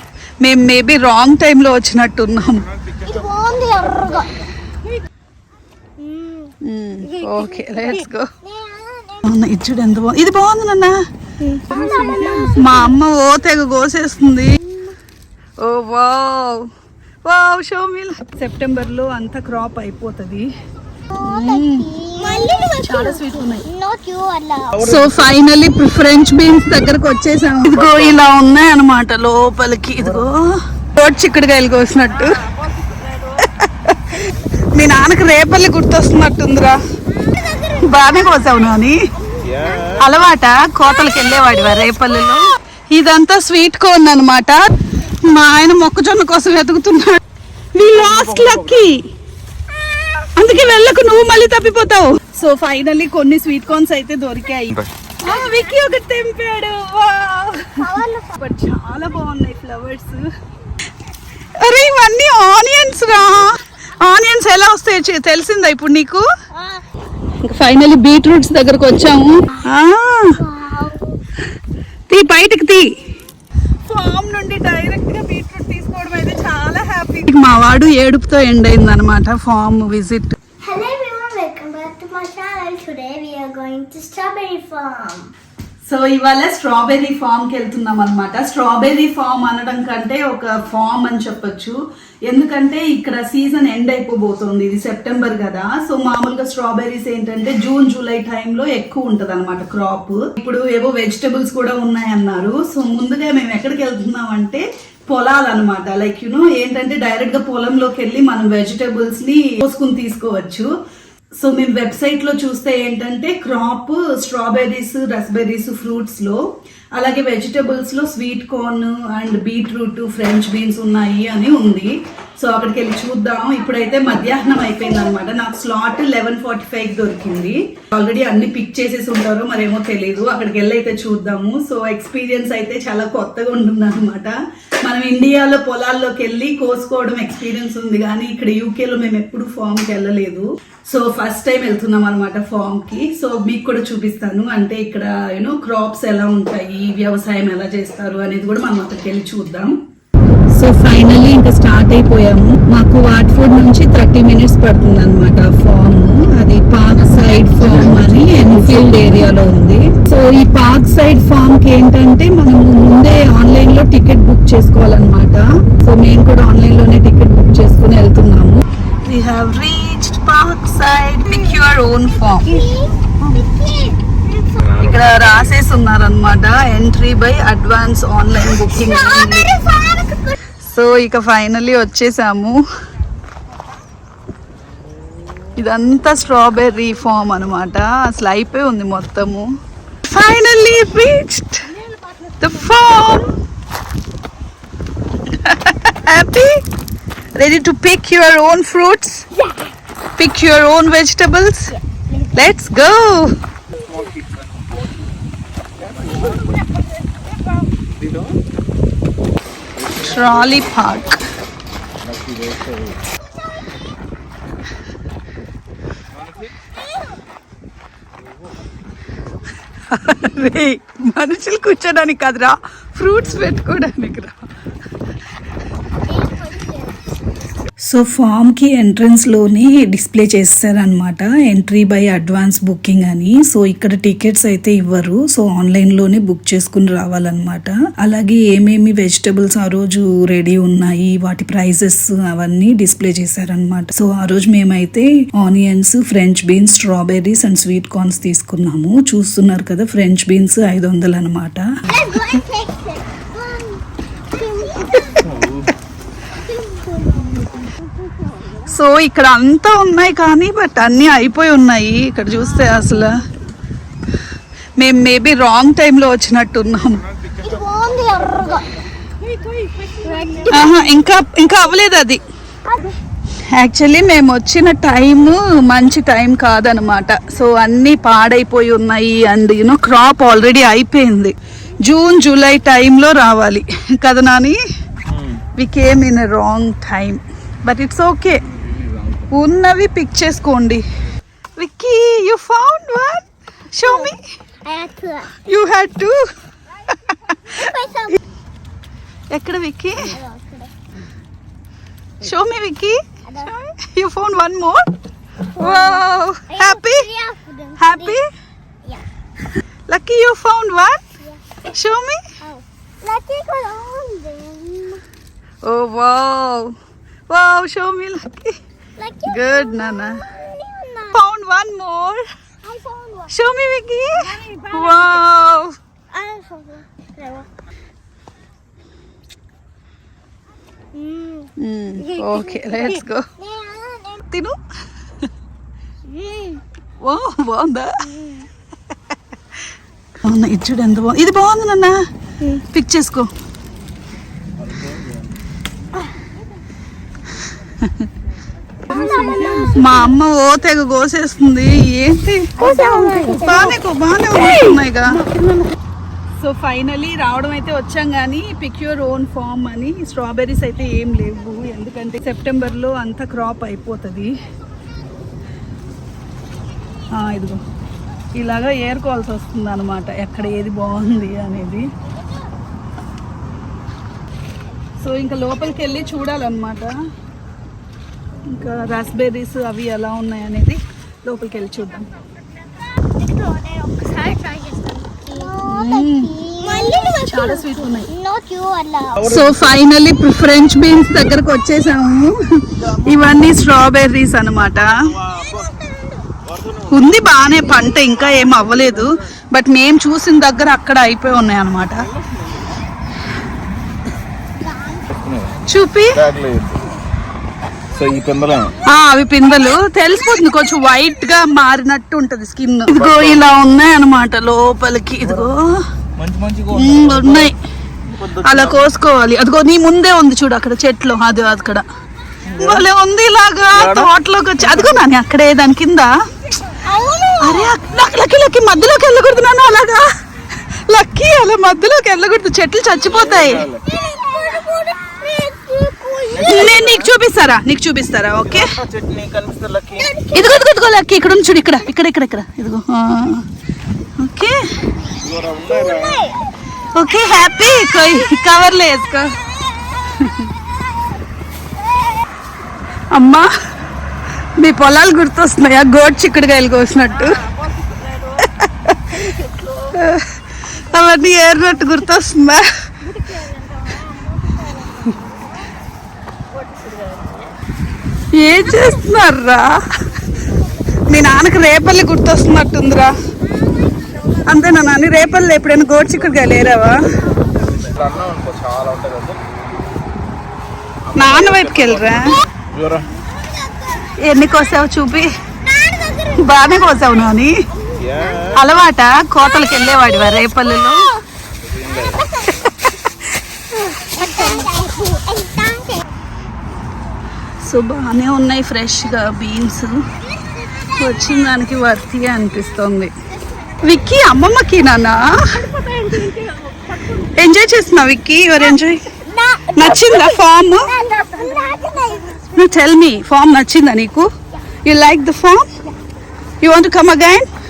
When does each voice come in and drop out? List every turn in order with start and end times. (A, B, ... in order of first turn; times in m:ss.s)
0:00.4-0:02.6 A
0:03.0-0:04.3 B
0:06.0-0:06.5 B
0:06.6-0:08.3 A
0:07.2-0:09.3 B
0:09.2-0:10.9 A
0:11.4-0:13.0 B
0:11.7-0:14.6 A
0:15.6-0:16.6 A
0:17.3-0:20.5 A
0:21.1-0:24.8 B
0:21.2-0:21.9 A
0:22.4-0:23.6 A
0:24.7-0:25.3 C
0:24.8-0:32.4 A
0:27.7-0:28.2 C
0:30.0-0:30.3 C
0:33.3-0:36.8 A
0:37.2-0:38.6 B
0:37.8-0:39.0 A
0:39.4-0:40.1 C
0:40.0-0:44.6 A
0:45.3-0:47.2 A
0:47.7-0:49.1 A
0:47.8-0:48.9 C
0:50.4-0:57.8 A
0:57.8-0:58.4 B
0:58.4-1:00.2 A
1:01.6-1:06.2 A
1:06.5-1:06.8 B
1:07.4-1:10.4 A
1:10.4-1:11.2 B
1:12.1-1:13.0 A
1:13.9-1:20.3 A
1:20.6-1:25.3 B
1:25.8-1:31.8 A
1:32.3-1:50.7 A
1:51.4-1:56.4 A
1:56.9-2:29.7 A
2:30.6-2:52.6 A
2:51.3-2:51.6 B
2:52.3-2:54.8 B
2:54.6-2:55.4 C
2:54.8-2:59.5 A
2:58.6-3:00.3 B
3:00.6-3:02.6 A
3:05.6-3:09.5 A
3:10.0-3:11.6 A
3:11.8-3:12.7 B
3:12.4-3:13.3 A
3:15.3-3:16.5 A
3:17.4-3:19.3 A
3:20.2-3:21.7 A
3:22.3-3:23.3 A
3:23.8-3:24.2 C
3:26.0-3:26.4 C
3:28.0-3:28.3 C
3:29.8-3:30.7 C
3:30.0-3:31.2 A
3:32.0-3:33.0 C
3:39.9-3:44.4 A
3:46.0-3:47.1 B
3:47.9-4:11.6 A
4:11.9-4:15.3 B
4:15.2-4:15.7 C
4:16.3-4:17.8 B
4:18.7-4:23.1 A
4:24.8-4:27.0 A
4:27.4-4:28.6 B
4:29.5-4:30.8 B
4:30.5-4:32.2 A
4:32.7-4:32.9 B
4:33.5-4:44.6 A
4:45.1-4:45.4 C
4:45.6-4:48.4 A
4:48.6-4:49.2 C
4:49.3-4:50.8 A
4:51.6-4:54.2 A
4:53.8-4:54.1 B
4:54.6-4:55.3 B
4:55.4-4:56.2 A
4:57.5-4:58.2 B
4:59.3-5:00.2 A
5:00.0-5:00.7 B
5:02.2-5:03.0 A
5:03.2-5:03.7 B
5:03.8-5:04.9 A
5:05.5-5:08.2 B
5:05.6-5:07.0 A
5:07.8-5:08.2 A
5:09.9-5:11.0 A
5:11.7-5:12.2 A
5:12.4-5:15.0 B
5:15.6-5:16.7 A
5:17.3-5:18.5 A
5:19.0-5:21.2 B
5:19.2-5:20.2 A
5:21.1-5:22.2 A
5:22.6-5:23.3 B
5:23.3-5:25.7 A
5:24.4-5:25.3 B
5:26.1-5:27.5 B
5:30.9-5:31.5 B
5:31.6-5:33.3 A
5:32.0-5:34.2 B
5:34.3-5:34.6 A
5:36.1-5:36.6 B
5:37.0-5:37.9 A
5:38.0-5:38.4 B
5:40.2-5:41.9 A
5:42.7-5:43.3 A
5:44.6-5:45.2 C
5:48.9-5:50.1 B
5:49.0-5:55.2 A
5:52.6-5:53.8 B
5:54.4-5:55.7 B
5:56.4-6:04.3 A
6:07.1-6:07.6 A
6:08.4-6:11.9 A
6:15.0-6:16.9 A
6:18.5-6:22.1 A
6:23.0-6:29.2 B
6:25.7-6:28.1 A
6:29.2-6:29.6 C
6:29.2-6:35.0 A
6:32.9-6:33.2 C
6:35.3-6:36.2 B
6:36.5-6:37.0 C
6:36.9-6:42.1 A
6:44.6-6:45.0 B
6:45.1-6:45.5 C
6:45.7-6:46.2 A
6:46.1-6:46.8 C
6:47.9-6:48.8 C
6:48.8-6:55.8 A
6:52.9-6:53.5 C
6:55.2-6:55.5 C
6:56.2-6:57.5 C
6:56.7-6:57.6 A
6:58.0-6:58.9 C
6:58.4-7:01.8 A
7:02.5-7:02.9 C
7:02.6-7:06.1 A
7:03.7-7:05.0 C
7:06.8-7:07.8 B
7:07.4-7:10.1 A
7:10.9-7:13.7 A
7:13.1-7:13.8 C
7:13.8-7:16.8 B
7:16.3-7:17.1 C
7:16.4-7:18.7 A
7:18.4-7:20.2 C
7:20.0-7:20.5 B
7:20.3-7:23.4 A
7:24.2-7:24.6 A
7:25.2-7:26.2 C
7:25.6-7:26.3 B
7:26.9-7:29.3 A
7:33.1-7:33.5 A
7:34.6-7:37.4 A
7:38.4-7:39.2 A
7:39.9-7:40.3 A
7:40.9-7:42.6 A
7:48.3-7:49.7 A
7:51.1-7:53.1 A
7:54.4-7:57.1 A
7:57.8-7:59.4 C
8:01.1-8:03.1 C
8:01.2-8:02.4 A
8:03.3-8:04.1 B
8:04.2-8:05.3 A
8:05.6-8:07.1 B
8:06.4-8:07.5 A
8:07.9-8:08.5 B
8:08.0-8:08.6 C
8:08.5-8:11.1 A
8:10.9-8:11.2 B
8:11.6-8:12.3 C
8:12.0-8:12.6 B
8:13.9-8:16.0 B
8:17.6-8:20.0 A
8:20.3-8:21.0 B
8:21.0-8:23.1 A
8:23.8-8:25.6 A
8:25.7-8:27.0 B
8:27.3-8:29.0 A
8:29.3-8:32.6 B
8:29.7-8:30.9 A
8:32.5-8:34.3 A
8:34.8-8:35.7 A
8:36.6-8:37.4 A